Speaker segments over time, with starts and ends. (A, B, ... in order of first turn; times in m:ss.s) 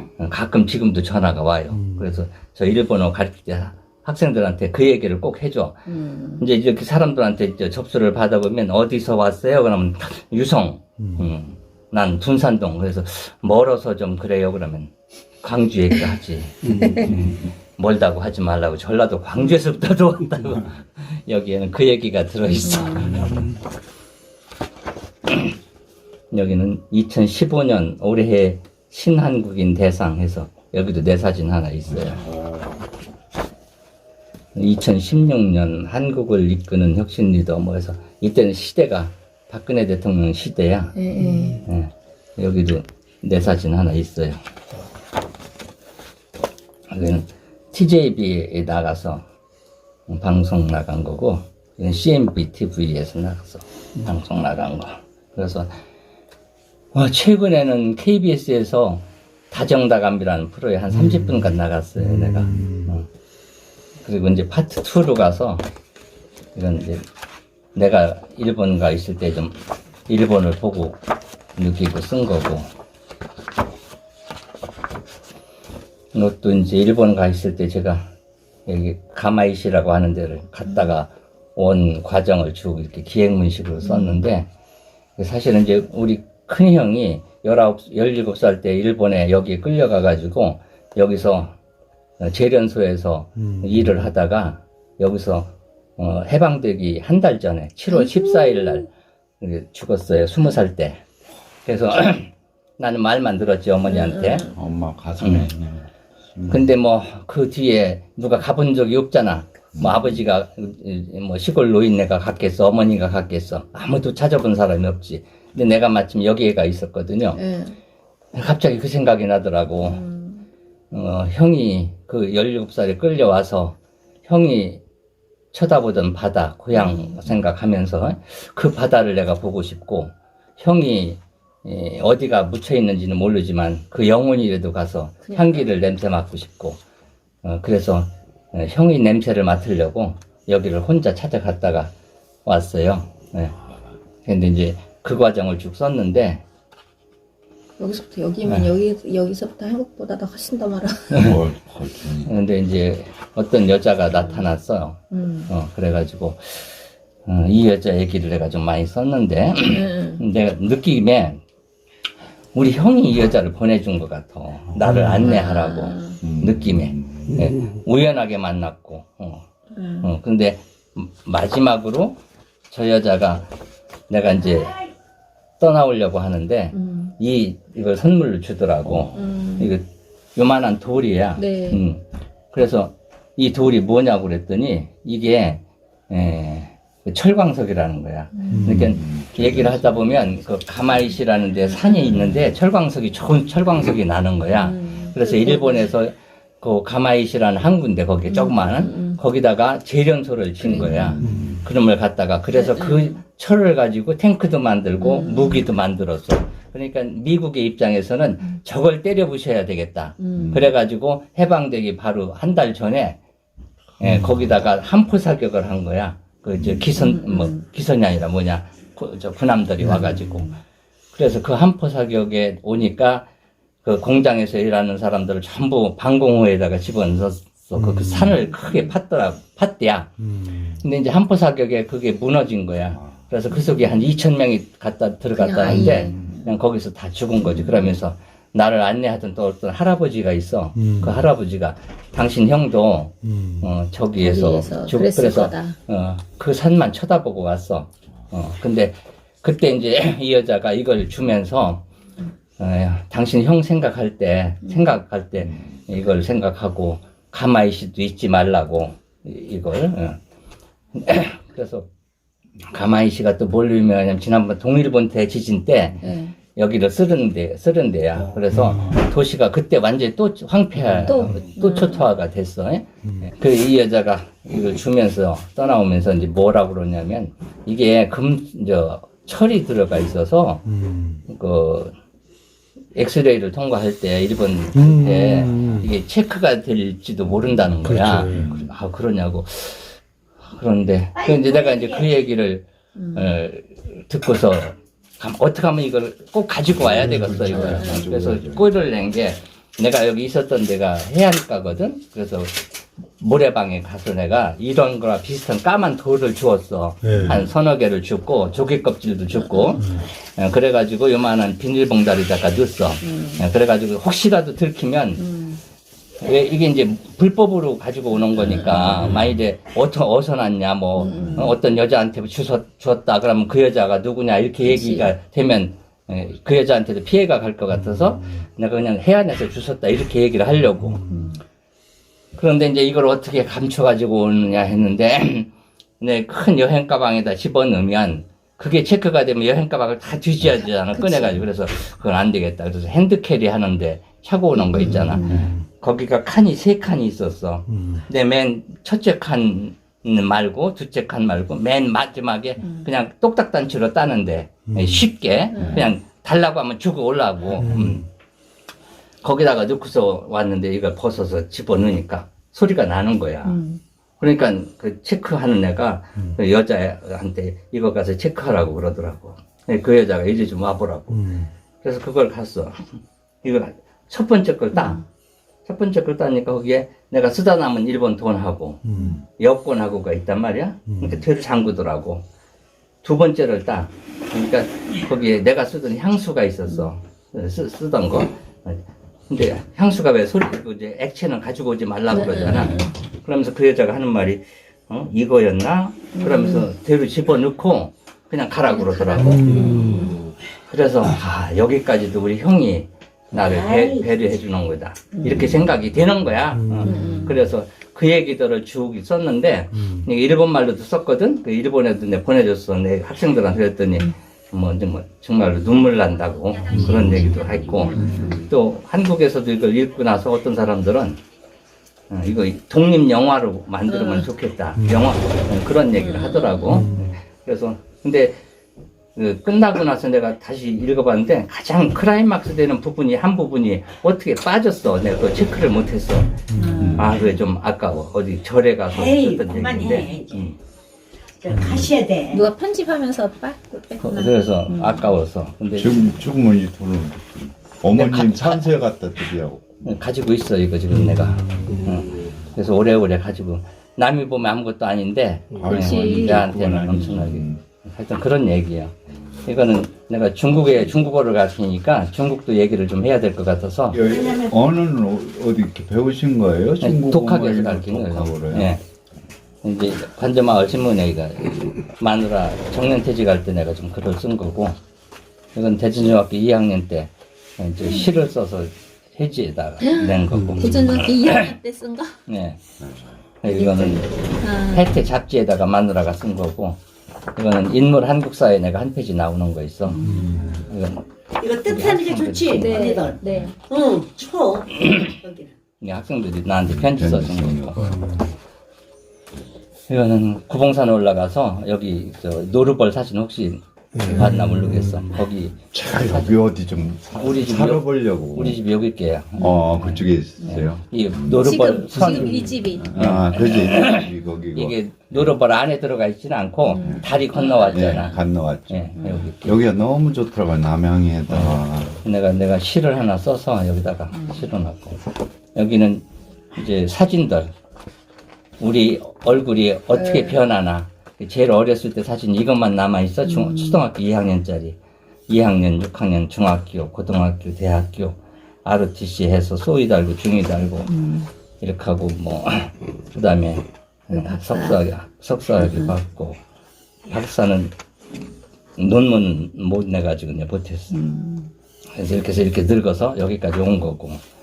0:00.2-0:23.5 A
0:05.9-0:06.4 B
0:11.0-0:11.3 C
0:22.6-0:23.1 B
0:23.0-0:23.4 D
0:26.3-0:32.2 A
0:32.0-0:32.8 D
0:34.5-0:44.4 A
0:41.0-0:41.6 B
0:46.9-0:49.2 A
0:50.1-0:55.7 A
0:56.9-1:03.0 A
1:01.0-1:01.4 C
1:02.1-1:02.9 C
1:04.0-1:05.7 A
1:06.5-1:07.0 A
1:07.7-1:11.0 A
1:11.6-1:12.7 A
1:16.1-1:18.1 A
1:18.6-1:24.5 A
1:23.8-1:24.1 B
1:25.2-1:31.6 A
1:32.2-1:41.0 A
1:33.4-1:33.9 C
1:37.9-1:38.8 B
1:41.6-1:44.5 A
1:43.9-1:44.5 B
1:44.5-1:46.7 D
1:45.2-1:45.5 A
1:46.5-1:57.4 A
1:49.7-1:50.1 D
1:57.4-1:57.8 B
1:58.3-2:00.0 A
1:59.8-2:00.4 B
2:00.9-2:04.8 A
2:05.5-2:16.8 A
2:06.8-2:07.1 B
2:15.3-2:15.6 B
2:17.4-2:21.9 A
2:22.4-2:23.6 A
2:24.2-2:26.4 A
2:27.8-2:31.3 B
2:28.4-2:28.7 A
2:31.2-2:32.3 D
2:32.2-2:41.4 A
2:35.1-2:35.5 B
2:39.6-2:40.2 B
2:42.5-2:49.4 A
2:45.1-2:46.2 B
2:46.2-2:47.4 D
2:49.8-2:50.1 B
2:50.0-2:53.5 A
2:54.1-2:54.8 A
2:55.6-3:33.2 A
2:56.7-2:57.1 B
2:59.1-2:59.7 B
3:01.4-3:01.8 B
3:08.5-3:08.8 C
3:08.6-3:10.1 D
3:14.5-3:15.9 B
3:18.3-3:19.2 B
3:20.6-3:21.2 B
3:20.7-3:21.6 D
3:21.2-3:21.5 C
3:22.6-3:23.1 B
3:25.0-3:25.6 B
3:30.2-3:30.6 B
3:30.3-3:30.6 D
3:34.0-3:40.5 A
3:37.0-3:37.5 B
3:41.1-3:43.3 A
3:43.8-4:11.8 A
3:47.8-3:48.3 C
3:52.9-3:53.2 D
3:55.4-3:56.5 B
3:57.4-3:57.9 B
4:00.8-4:01.1 C
4:03.2-4:03.6 C
4:04.2-4:05.8 B
4:12.6-4:20.2 A
4:20.9-4:21.9 A
4:22.7-4:40.6 A
4:26.0-4:26.3 B
4:28.4-4:28.9 D
4:31.0-4:32.0 B
4:40.7-4:41.2 C
4:41.2-4:41.9 A
4:42.9-5:02.6 A
4:44.8-4:45.8 C
4:47.8-4:48.5 C
4:48.2-4:48.7 D
4:51.2-4:52.0 E
4:53.0-4:53.3 B
4:56.7-4:58.7 D
4:57.5-4:58.1 B
5:03.2-5:15.2 A
5:07.0-5:07.4 C
5:09.5-5:09.8 B
5:13.0-5:13.4 B
5:15.2-5:15.6 B
5:16.2-5:31.1 A
5:21.0-5:21.6 B
5:24.7-5:25.1 B
5:31.0-5:31.3 C
5:31.1-5:31.4 B
5:32.3-5:58.0 A
5:40.9-5:41.4 B
5:44.7-5:45.4 B
5:45.2-5:45.5 D
5:47.7-5:48.0 C
5:54.7-5:55.0 C
5:55.5-5:55.9 B
5:55.6-5:55.9 D
5:57.6-5:58.0 C
5:59.2-6:03.6 A
6:03.4-6:03.8 B
6:04.2-6:11.3 A
6:11.1-6:11.5 C
6:11.8-6:15.0 A
6:15.6-6:22.2 A
6:18.8-6:19.2 C
6:20.9-6:21.2 C
6:23.0-6:39.9 A
6:32.1-6:32.9 B
6:36.1-6:36.7 B
6:38.7-6:40.2 B
6:39.2-6:40.1 C
6:39.5-6:40.3 E
6:40.7-7:01.2 A
6:43.3-6:44.1 E
6:45.3-6:45.6 D
6:46.5-6:47.0 C
6:46.8-6:47.4 B
6:49.8-6:50.0 C
6:56.7-6:57.3 C
6:56.9-6:58.4 B
6:58.0-6:58.3 C
7:02.1-7:08.4 A
7:03.9-7:04.3 B
7:04.8-7:05.1 C
7:06.0-7:06.8 B
7:06.7-7:07.1 C
7:09.1-7:16.4 A
7:16.5-7:16.9 C
7:16.6-7:17.1 B
7:16.8-7:17.2 D
7:16.9-7:20.6 A
7:18.9-7:20.5 E
7:21.4-7:22.4 E
7:21.6-7:21.8 C
7:22.3-7:25.1 B
7:24.0-7:26.2 A
7:25.7-7:30.0 D
7:27.9-7:28.6 A
7:29.8-7:44.0 A
7:31.0-7:31.8 C
7:35.5-7:37.6 D
7:35.6-7:36.5 B
7:43.9-7:48.8 D
7:44.0-7:44.5 E
7:46.8-7:48.8 A
7:49.6-7:54.8 A
7:55.5-8:01.6 A
7:57.8-7:58.1 B
7:59.8-8:02.2 B
8:02.2-8:02.6 A
8:02.8-8:03.1 D
8:03.4-8:06.8 A
8:03.4-8:05.0 B
8:07.4-8:11.1 A
8:09.9-8:10.4 B
8:10.2-8:10.7 D
8:11.4-8:15.5 E
8:11.6-8:12.9 A
8:12.5-8:13.6 B
8:15.8-8:18.1 A
8:16.7-8:18.0 D
8:19.9-8:26.4 A
8:23.9-8:25.1 C
8:24.1-8:24.3 B
8:25.6-8:28.6 D
8:27.1-8:38.2 A
8:29.4-8:31.6 D
8:31.3-8:32.9 B
8:32.6-8:35.3 D
8:36.7-8:38.1 B
8:36.8-8:42.0 D
8:38.7-8:39.6 A
8:41.3-8:45.0 A
8:44.1-8:44.4 B
8:45.5-8:47.5 A
8:48.6-8:54.8 A
8:49.9-8:50.4 B
8:53.2-8:53.8 B
8:55.3-9:01.0 A
9:00.9-9:01.3 B
9:01.6-9:06.4 A
9:04.1-9:04.8 B
9:05.6-9:05.9 B
9:07.1-9:07.7 A
9:08.8-9:11.0 A
9:10.9-9:11.5 B
9:11.9-9:14.2 A